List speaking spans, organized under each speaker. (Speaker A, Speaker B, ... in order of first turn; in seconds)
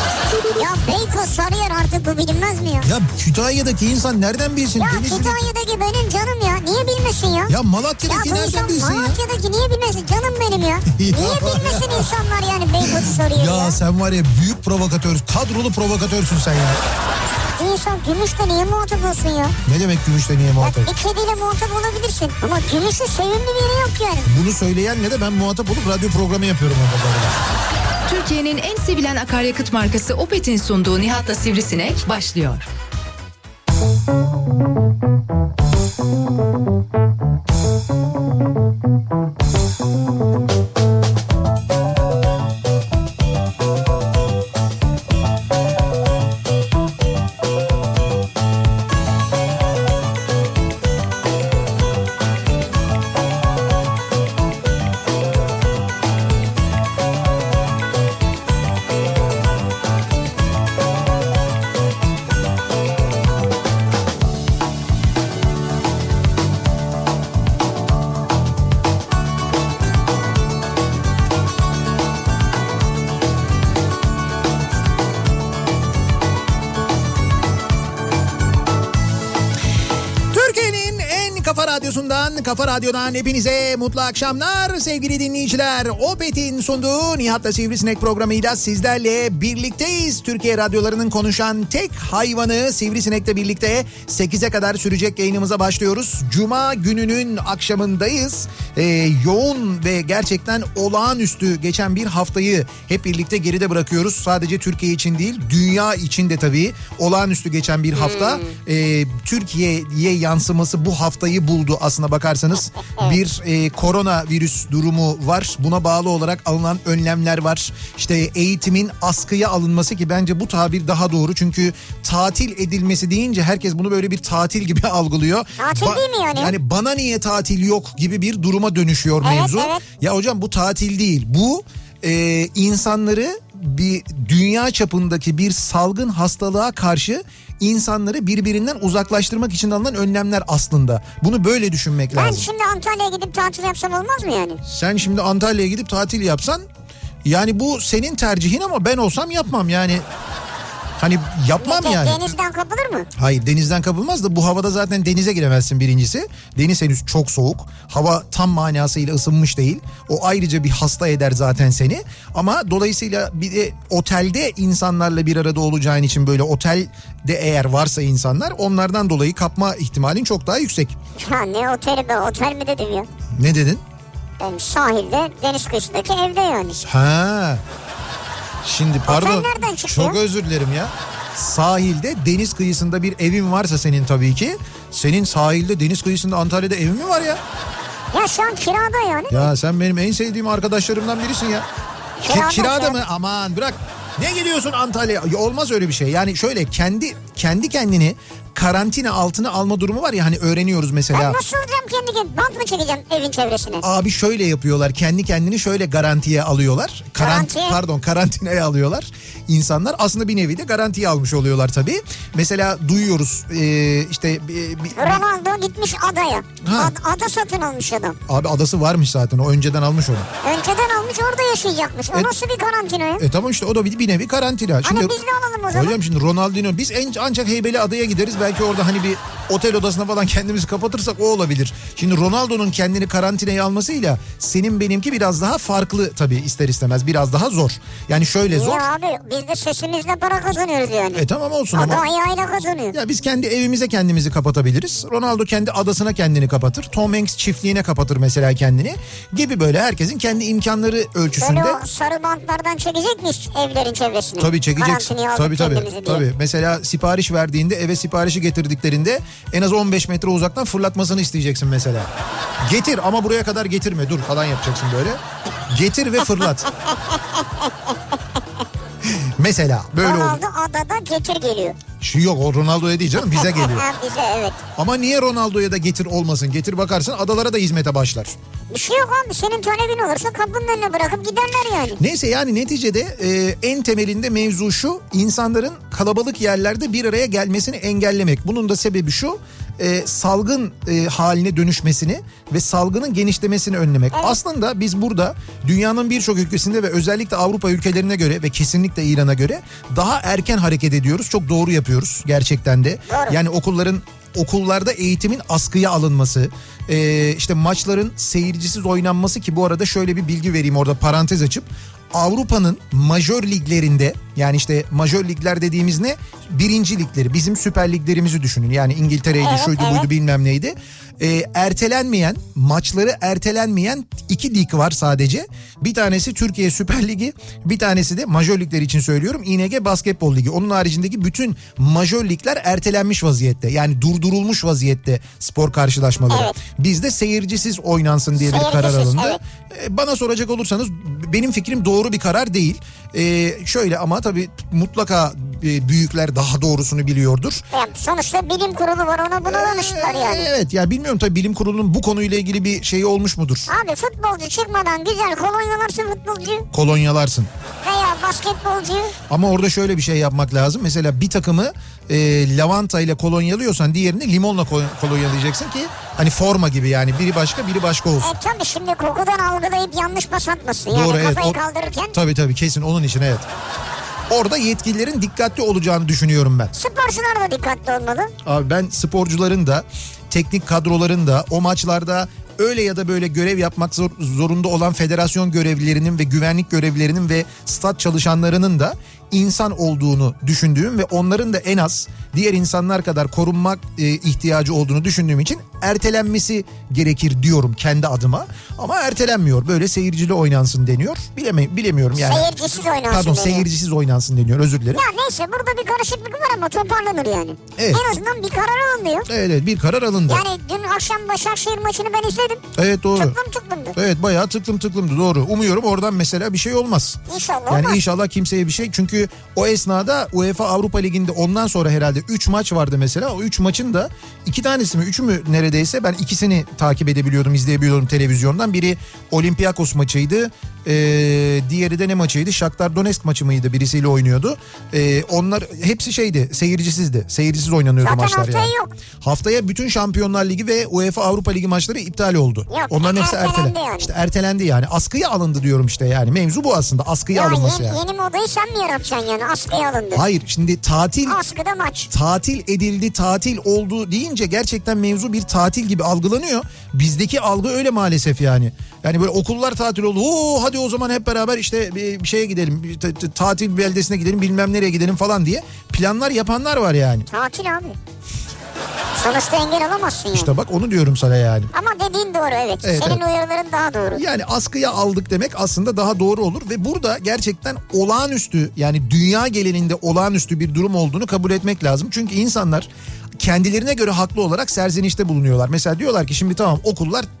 Speaker A: 0.5-2.9, 4.8-7.5, 8.1-13.8, 17.6-19.5, 20.6-24.3, 107.9-108.5, 112.8-113.2, 125.6-126.5, 129.2-129.8, 142.1-144.6, 151.6-153.1, 171.2-173.1, 174.4-176.8, 179.1-180.2, 188.1-189.5, 192.2-193.0, 201.1-203.8, 207.2-207.8, 214.9-218.2, 220.4-223.2, 224.8-226.0, 238.5-243.0, 251.4-256.2, 266.9-267.9, 270.0-271.8, 273.2-274.6, 278.7-282.0, 294.1-294.4, 303.1-303.4, 319.4-320.1, 336.3-336.6, 338.4-339.4, 347.7-350.5, 353.7-356.7, 357.8-359.1, 368.2-372.1, 376.7-378.3, 402.1-403.7, 404.9-409.3, 410.3-414.0, 417.3-418.0, 438.0-438.9, 442.7-444.1, 447.3-450.2, 451.2-452.1, 467.3-468.0, 469.1-470.5, 471.7-474.2
Speaker B: 2.8-5.5, 7.5-9.2, 10.9-12.1, 12.8-16.8, 19.6-20.9, 24.2-27.4, 80.3-142.5, 144.6-146.7, 147.2-150.0, 151.0-152.3, 153.2-170.9, 173.3-173.8, 176.8-177.6, 178.6-187.4, 189.3-191.7, 192.2-201.4, 203.8-215.2, 216.6-216.9, 218.3-220.3, 223.2-225.2, 225.7-238.8, 241.1-242.1, 242.9-251.8, 254.4-262.1, 262.6-266.7, 269.0-270.4, 272.0-273.9, 274.8-278.3, 282.0-347.6, 349.4-353.7, 356.7-357.5, 359.3-368.3, 370.9-371.6, 372.1-373.5, 374.3-376.7, 378.4-402.5, 403.1-405.0, 407.8-408.1, 409.3-410.4, 412.7-413.4, 413.9-448.0, 450.1-451.4, 452.1-467.3, 470.3-471.7, 472.8-473.2, 474.1-487.3
Speaker C: 28.1-32.6